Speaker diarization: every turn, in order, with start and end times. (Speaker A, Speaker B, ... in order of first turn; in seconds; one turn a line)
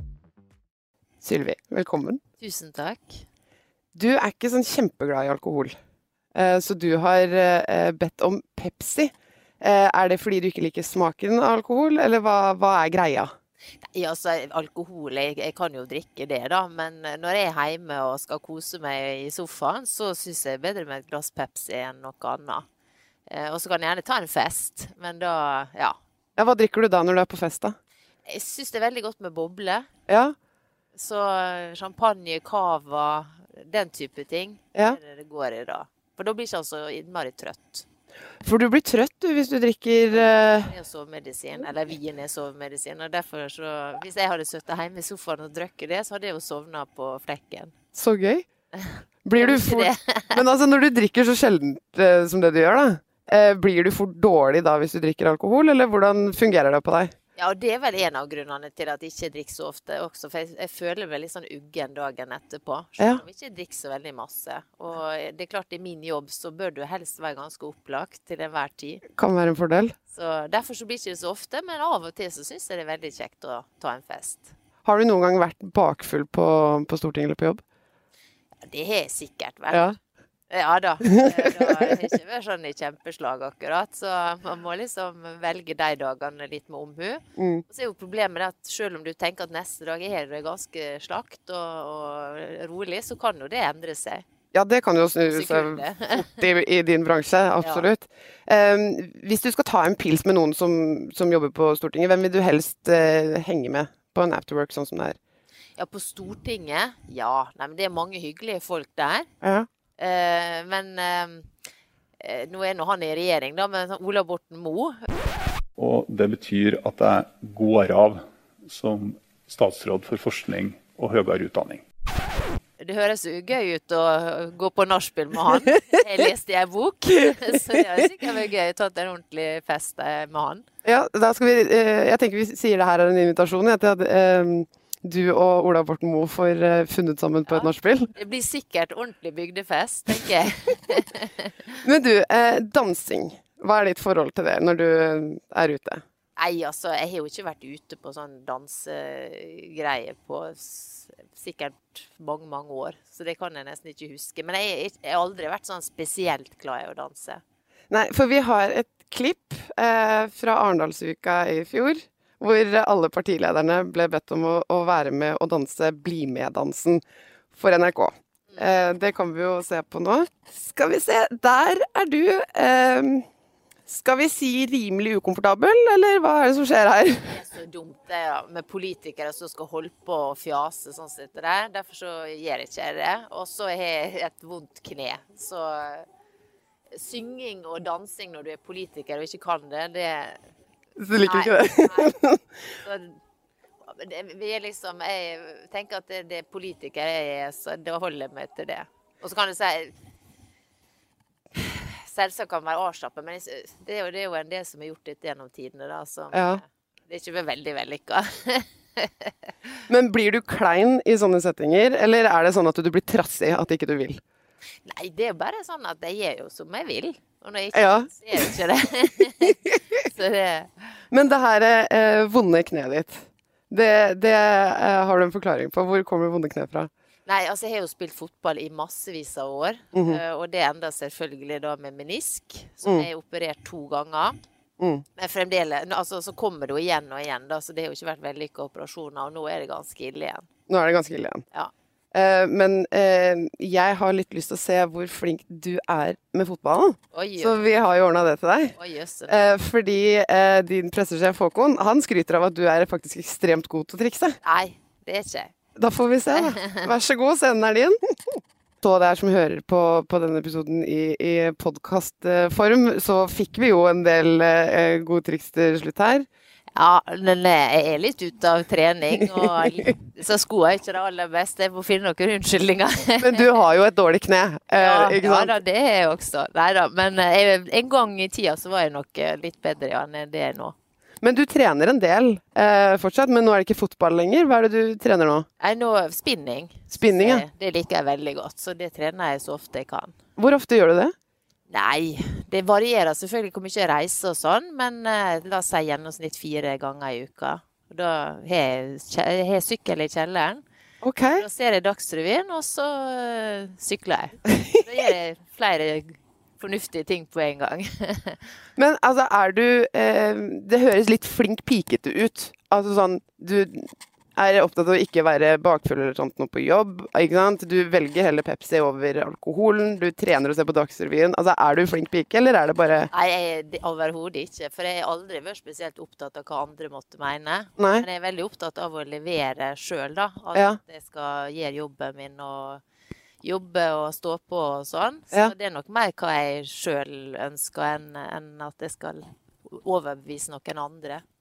Speaker A: 1.2-2.2
Speaker B: 2.4-3.2
Speaker A: 3.9-5.7
Speaker A: 6.3-13.3
Speaker B: 13.9-22.6
Speaker B: 23.3-26.0
Speaker A: 26.4-27.7
Speaker B: 28.2-29.9
Speaker A: 30.1-30.3
Speaker B: 30.9-37.9
Speaker A: 38.4-40.7
Speaker B: 40.1-47.7
Speaker A: 47.9-48.5
Speaker B: 48.7-50.4
Speaker A: 49.2-57.1
Speaker B: 57.4-69.0
Speaker A: 69.2-69.9
Speaker B: 70.1-74.5
Speaker A: 74.8-77.6
Speaker B: 78.7-79.9
Speaker A: 79.7-80.0
Speaker B: 80.5-94.2
Speaker A: 81.0-81.9
Speaker A: 87.4-87.6
Speaker A: 94.5-105.2
Speaker B: 95.3-96.3
Speaker B: 105.8-109.3
Speaker A: 109.4-109.7
Speaker B: 110.0-111.5
Speaker B: 112.2-115.1
Speaker C: 115.8-121.8
Speaker B: 122.8-130.6
Speaker A: 130.8-138.1
Speaker B: 137.5-141.7
Speaker A: 141.8-146.0
Speaker B: 146.3-157.4
Speaker A: 157.9-173.2
Speaker A: 173.8-177.4
Speaker B: 177.2-186.1
Speaker B: 186.9-190.4
Speaker A: 191.0-192.4
Speaker B: 191.2-192.2
Speaker B: 192.7-193.1
Speaker B: 193.8-199.9
Speaker B: 201.5-209.8
Speaker A: 206.3-206.6
Speaker A: 209.9-214.2
Speaker B: 214.8-220.8
Speaker A: 217.7-218.4
Speaker A: 221.1-226.9
Speaker B: 227.2-234.3
Speaker A: 229.9-230.2
Speaker A: 234.8-235.0
Speaker B: 235.2-240.5
Speaker A: 240.7-241.4
Speaker A: 242.1-248.7
Speaker B: 247.1-247.6
Speaker B: 248.8-249.3
Speaker A: 249.3-254.4
Speaker B: 254.4-255.5
Speaker A: 255.8-266.2
Speaker B: 256.3-256.8
Speaker B: 266.7-273.4
Speaker A: 269.2-269.6
Speaker A: 273.2-275.5
Speaker B: 274.7-280.7
Speaker A: 281.2-285.4
Speaker B: 285.6-290.1
Speaker A: 286.9-287.4
Speaker A: 290.4-291.1
Speaker B: 291.7-300.6
Speaker A: 301.0-301.4
Speaker B: 301.3-308.4
Speaker A: 304.6-304.8
Speaker A: 308.8-323.1
Speaker B: 323.1-332.8
Speaker A: 327.8-328.1
Speaker A: 330.5-330.8
Speaker B: 333.4-341.2